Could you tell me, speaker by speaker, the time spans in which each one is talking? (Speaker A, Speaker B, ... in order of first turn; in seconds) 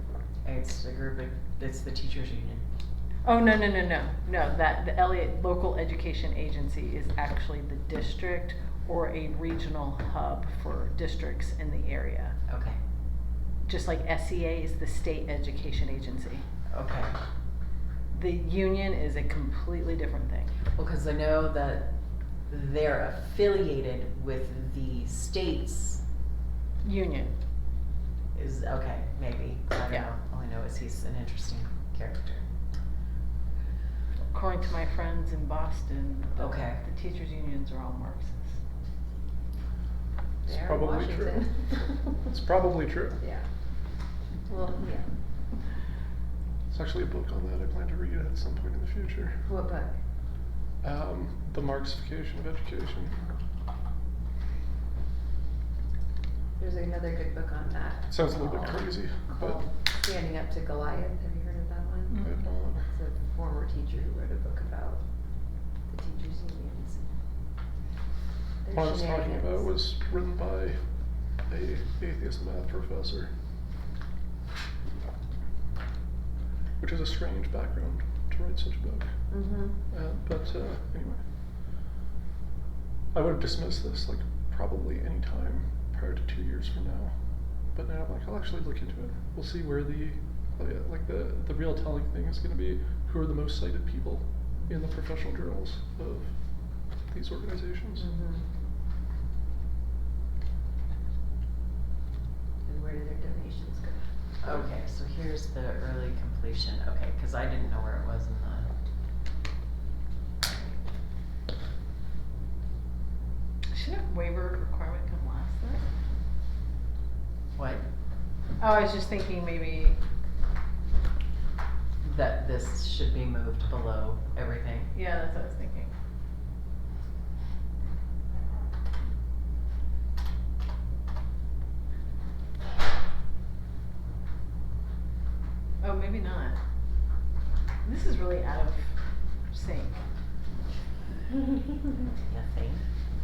Speaker A: 0.4-2.6, 12.5-12.8, 16.7-17.2, 20.7-21.9, 22.5-26.0, 28.3-32.5, 36.4-36.8, 104.4-108.7, 110.4-110.8, 117.5-117.8, 122.0-124.9, 142.3-142.9
Speaker B: 3.2-12.4, 13.6-16.4, 18.1-20.5, 26.8-27.4, 34.3-38.6, 62.1-62.4, 113.7-115.8, 118.6-120.0, 124.9-125.9, 135.8-136.6, 137.8-140.0
Speaker C: 40.5-41.4, 42.2-43.2, 46.7-49.4, 50.8-53.3, 58.1-59.6, 62.2-62.9, 68.7-70.8, 71.4-73.3, 76.8-79.3, 79.9-81.2, 83.1-87.1, 87.7-98.1
Speaker D: 40.5-42.2, 43.2-43.5, 44.5-45.1, 49.5-50.0, 56.6-65.0, 65.9-67.0, 68.6-69.7, 79.3-79.8, 98.0-98.5, 102.6-104.6